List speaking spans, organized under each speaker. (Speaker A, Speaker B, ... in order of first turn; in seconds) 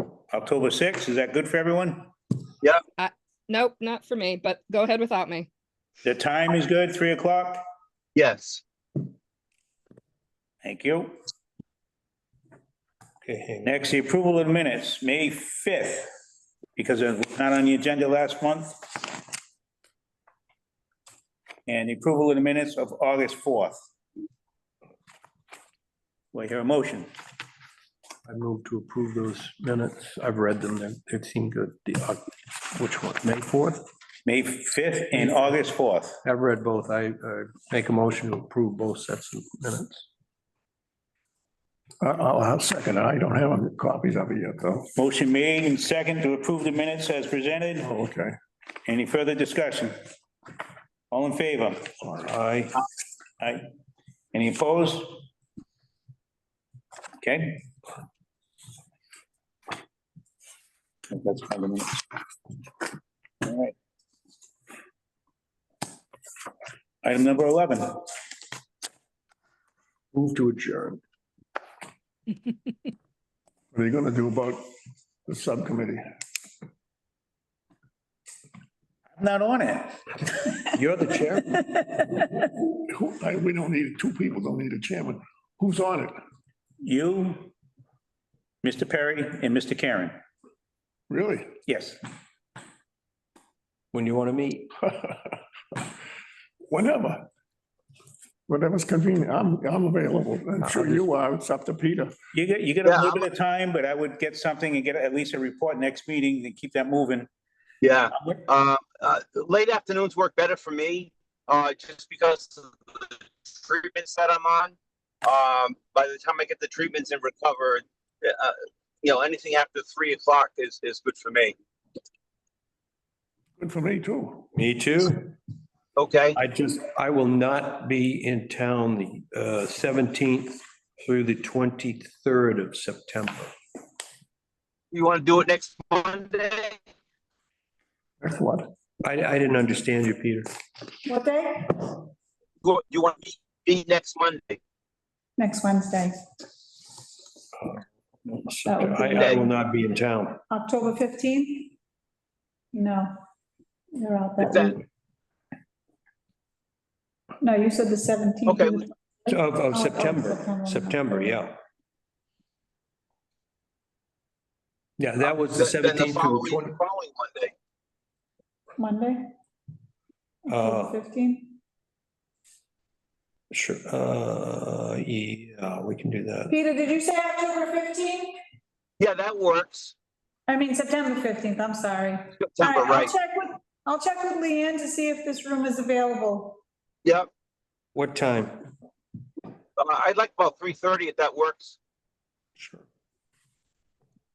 Speaker A: 0.3-2.1, 6.0-7.6, 10.6-11.2, 13.6-16.1, 16.8-19.1, 21.7-23.8, 26.3-27.1, 34.3-36.2, 45.0-47.9, 48.9-49.9, 51.1-51.9, 54.3-55.2, 57.2-57.6, 61.1-62.0, 63.4-63.7, 67.0-68.1, 79.2-80.0, 86.8-87.5, 88.6-90.2, 91.7-92.0, 102.3-107.3
Speaker B: 3.0-5.5
Speaker C: 8.1-8.6, 102.8-103.3, 107.8-121.5, 126.0-126.4, 134.9-136.8, 142.6-144.6, 149.1-149.4, 154.4-154.8, 158.5-158.8, 165.2-167.5, 179.0-179.9, 182.4-183.1, 189.8-191.8
Speaker D: 13.2-13.8, 28.2-33.9, 35.1-35.5, 36.2-40.0, 52.1-52.8, 70.1-71.0, 80.8-81.6, 93.9-94.7, 100.6-101.1, 124.5-125.3, 126.3-133.5, 139.0-140.5, 147.6-150.4, 159.3-161.6, 165.0-166.7, 170.5-171.0, 173.5-176.5, 187.9-188.7
Speaker E: 42.0-44.9, 47.8-48.3, 52.0-52.3, 73.7-74.6, 75.3-76.0, 82.5-86.2, 91.1-91.5, 96.7-97.3, 98.5-102.1, 123.6-124.5, 138.2-138.7
Speaker F: 141.0-141.9, 145.4-146.1, 148.7-149.4, 150.5-151.7, 152.7-153.2, 153.9-154.8, 157.4-161.0, 168.8-169.3, 170.4-171.6, 176.5-178.3, 180.5-186.6